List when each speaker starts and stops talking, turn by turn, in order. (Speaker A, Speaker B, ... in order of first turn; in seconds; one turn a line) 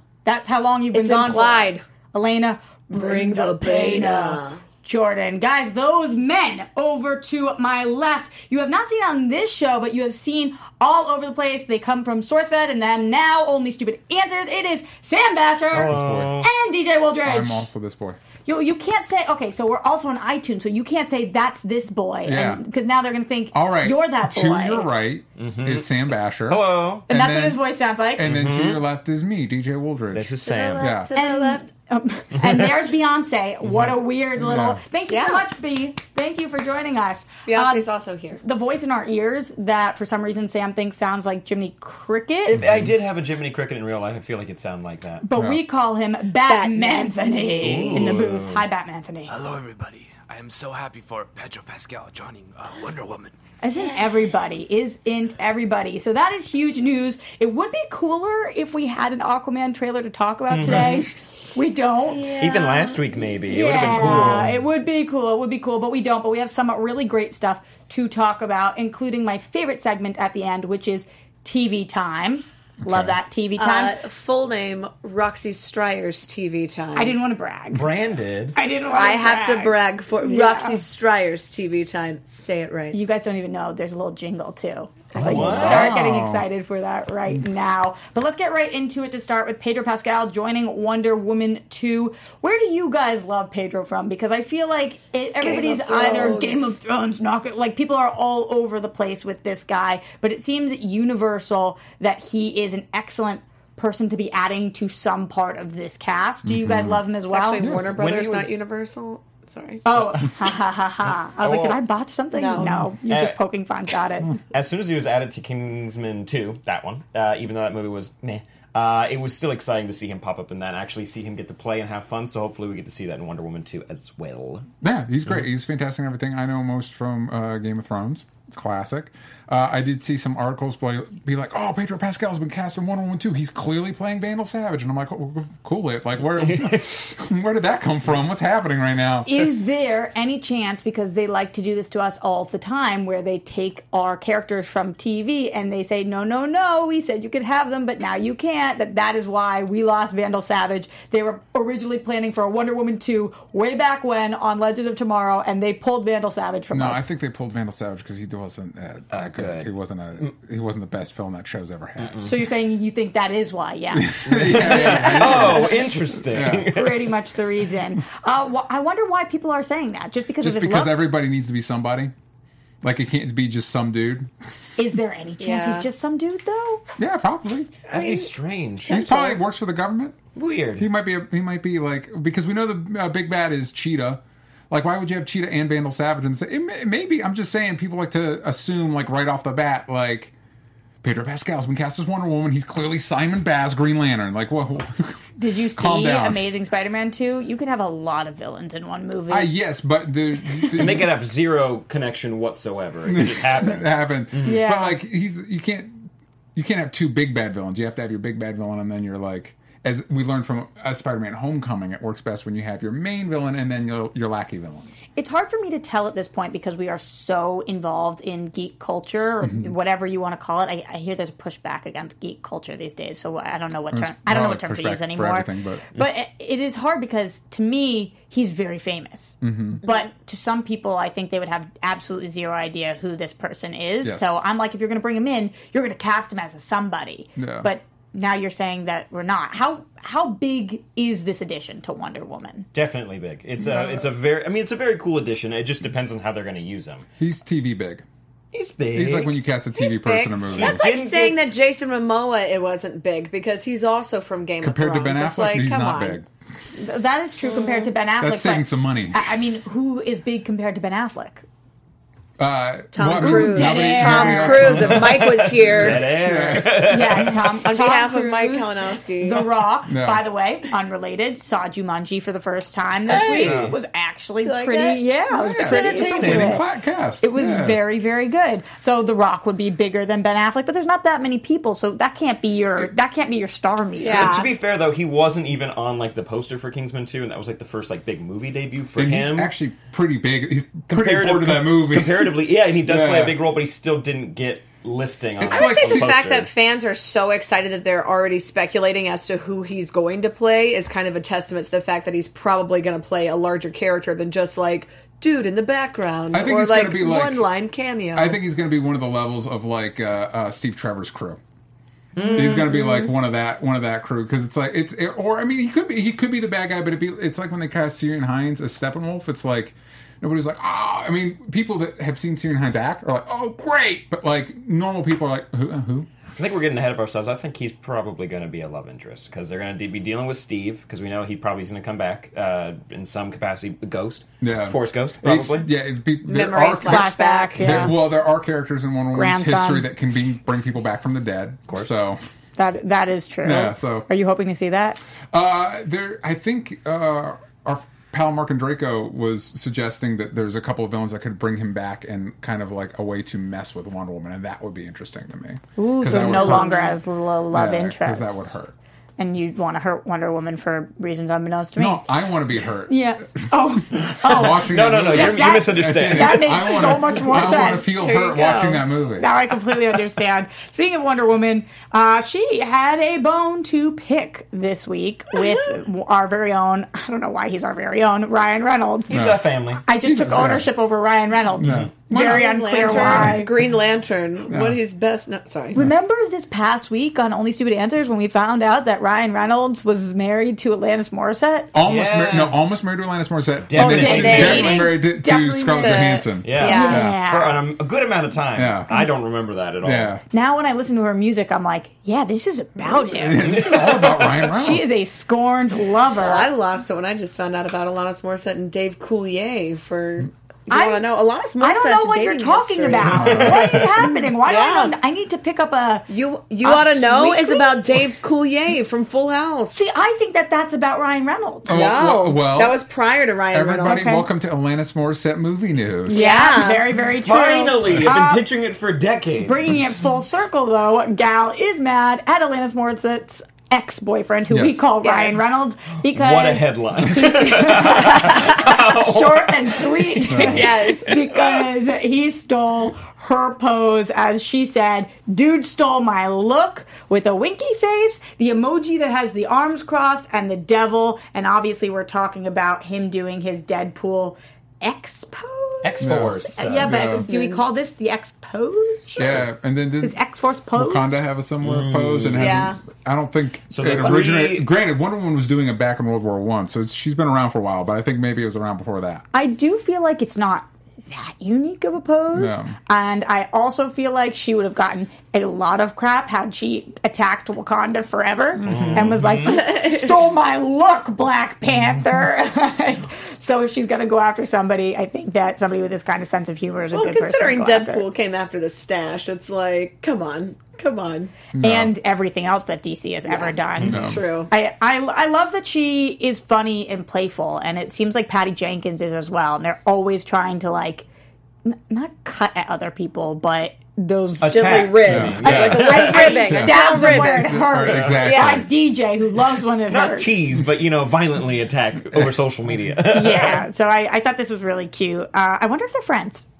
Speaker A: 0.2-17.7
Speaker B: 0.9-1.8
Speaker B: 2.9-4.6
Speaker C: 15.7-16.4
Speaker D: 15.7-16.5
Speaker C: 17.2-18.2
Speaker A: 18.4-24.9
Speaker C: 22.2-22.6
Speaker C: 23.5-27.6
Speaker D: 25.4-25.9
Speaker D: 26.5-27.1
Speaker A: 27.1-28.2
Speaker C: 28.1-31.1
Speaker D: 28.2-28.8
Speaker D: 30.1-30.9
Speaker B: 30.4-31.7
Speaker A: 31.1-37.8
Speaker D: 32.3-32.6
Speaker C: 34.4-34.8
Speaker B: 35.1-35.4
Speaker B: 37.5-38.4
Speaker A: 38.4-42.6
Speaker D: 42.5-45.2
Speaker C: 42.6-42.9
Speaker A: 45.2-49.3
Speaker C: 45.3-45.6
Speaker B: 46.4-48.1
Speaker D: 47.6-48.6
Speaker E: 49.3-53.3
Speaker A: 53.6-62.3
Speaker D: 60.5-60.9
Speaker B: 62.1-63.2
Speaker D: 62.4-64.5
Speaker A: 63.5-73.9
Speaker C: 72.8-73.2
Speaker B: 73.6-77.2
Speaker A: 76.9-77.8
Speaker D: 77.7-78.5
Speaker A: 78.5-80.8
Speaker B: 78.9-83.0
Speaker A: 82.9-107.7
Speaker D: 85.1-86.0
Speaker C: 85.2-86.5
Speaker B: 95.4-96.7
Speaker C: 106.4-107.0
Speaker B: 107.3-109.8
Speaker C: 107.6-108.0
Speaker D: 107.9-108.6
Speaker A: 109.8-114.3
Speaker D: 111.4-111.8
Speaker B: 112.3-112.8
Speaker D: 113.1-113.4
Speaker D: 114.5-124.7
Speaker C: 124.8-139.4
Speaker D: 136.3-136.9
Speaker A: 139.2-157.1
Speaker C: 156.7-162.3
Speaker D: 159.1-159.7
Speaker D: 162.0-162.3
Speaker A: 162.2-165.7
Speaker C: 163.9-166.7
Speaker D: 164.2-166.9
Speaker A: 166.7-171.0
Speaker C: 170.4-172.1
Speaker C: 172.8-174.3
Speaker A: 174.8-176.8
Speaker B: 175.4-175.8
Speaker C: 177.0-177.7
Speaker B: 177.9-178.3
Speaker D: 177.9-179.0
Speaker B: 178.9-179.4
Speaker C: 178.9-180.2
Speaker D: 180.3-180.9
Speaker C: 180.8-190.3
Speaker C: 191.0-195.1
Speaker A: 195.4-199.5
Speaker C: 195.7-196.4
Speaker C: 199.3-201.1
Speaker D: 200.7-204.6
Speaker C: 203.1-215.0
Speaker A: 204.4-205.0
Speaker A: 215.2-242.7
Speaker C: 219.4-219.7
Speaker C: 223.9-225.9
Speaker C: 229.4-229.8
Speaker C: 234.0-234.3
Speaker C: 237.3-237.7
Speaker D: 242.7-247.0
Speaker C: 243.6-244.1
Speaker C: 247.2-248.0
Speaker D: 248.5-249.3
Speaker C: 248.9-250.8
Speaker B: 249.7-256.2
Speaker D: 250.5-251.4
Speaker C: 254.6-256.3
Speaker A: 256.8-261.4
Speaker B: 257.4-257.9
Speaker C: 258.2-259.3
Speaker C: 262.4-267.3
Speaker B: 262.9-266.1
Speaker A: 263.1-265.1
Speaker D: 265.6-267.3
Speaker A: 266.8-276.6
Speaker B: 267.6-269.5
Speaker C: 269.9-270.2
Speaker B: 273.1-273.6
Speaker D: 273.4-273.7
Speaker C: 273.4-273.7
Speaker B: 274.4-276.5
Speaker C: 275.3-277.8
Speaker A: 277.2-284.3
Speaker B: 284.0-284.5
Speaker D: 284.1-289.5
Speaker C: 288.9-293.4
Speaker D: 290.9-296.5
Speaker C: 295.4-296.2
Speaker B: 295.4-308.4
Speaker C: 306.3-307.5
Speaker C: 308.1-311.4
Speaker D: 312.1-312.9
Speaker C: 312.3-326.1
Speaker D: 326.4-335.7
Speaker C: 334.4-342.2
Speaker B: 336.2-337.9
Speaker A: 336.8-337.9
Speaker A: 339.1-339.9
Speaker A: 342.6-345.0
Speaker C: 343.4-344.1
Speaker C: 345.3-357.0
Speaker A: 355.8-358.4
Speaker C: 357.5-358.7
Speaker A: 359.2-362.1
Speaker C: 361.8-369.3
Speaker A: 362.9-367.9
Speaker D: 364.3-366.8
Speaker B: 367.7-368.8
Speaker A: 369.1-379.2
Speaker D: 379.1-379.8
Speaker C: 379.1-379.4
Speaker A: 379.8-383.5
Speaker C: 380.0-380.7
Speaker C: 381.6-383.4
Speaker D: 381.6-381.9
Speaker B: 382.1-385.8
Speaker C: 384.5-384.8
Speaker A: 385.7-391.7
Speaker C: 391.7-397.2
Speaker D: 391.8-392.6
Speaker D: 393.6-394.9
Speaker A: 393.8-397.6
Speaker B: 394.1-394.9
Speaker B: 395.7-397.0
Speaker D: 396.4-400.2
Speaker C: 398.5-398.9
Speaker C: 399.8-400.2
Speaker A: 400.3-403.5
Speaker C: 402.8-404.8
Speaker D: 403.4-404.3
Speaker A: 404.5-406.5
Speaker B: 406.2-414.9
Speaker A: 410.7-411.1
Speaker A: 411.6-416.1
Speaker C: 413.0-413.9
Speaker D: 413.2-413.9
Speaker B: 416.1-419.8
Speaker A: 416.6-418.0
Speaker A: 419.7-421.8
Speaker C: 421.7-422.8
Speaker B: 421.7-424.1
Speaker C: 423.5-426.3
Speaker A: 423.8-424.2
Speaker A: 426.1-428.4
Speaker B: 426.1-426.9
Speaker D: 427.2-429.6
Speaker A: 429.4-459.4
Speaker C: 434.5-434.8
Speaker B: 435.0-435.4
Speaker D: 436.1-441.6
Speaker C: 440.3-440.7
Speaker B: 440.4-441.1
Speaker D: 455.8-456.9
Speaker C: 456.0-457.2
Speaker B: 457.2-457.6
Speaker C: 459.1-460.2
Speaker A: 460.0-461.1
Speaker C: 460.7-469.2
Speaker D: 461.6-462.6
Speaker B: 462.4-462.8
Speaker D: 463.7-464.6
Speaker A: 469.3-488.1
Speaker C: 472.3-472.7
Speaker C: 478.6-479.2
Speaker D: 478.6-479.5
Speaker B: 479.4-480.1
Speaker B: 486.9-491.4
Speaker C: 491.6-491.9
Speaker A: 491.6-501.1
Speaker B: 493.3-494.5
Speaker C: 493.8-494.2
Speaker A: 501.6-504.9
Speaker D: 504.4-506.6
Speaker B: 504.5-507.6
Speaker C: 505.1-508.7
Speaker A: 505.4-510.4
Speaker D: 507.9-508.5
Speaker B: 508.3-508.6
Speaker D: 509.9-513.6
Speaker A: 513.1-516.4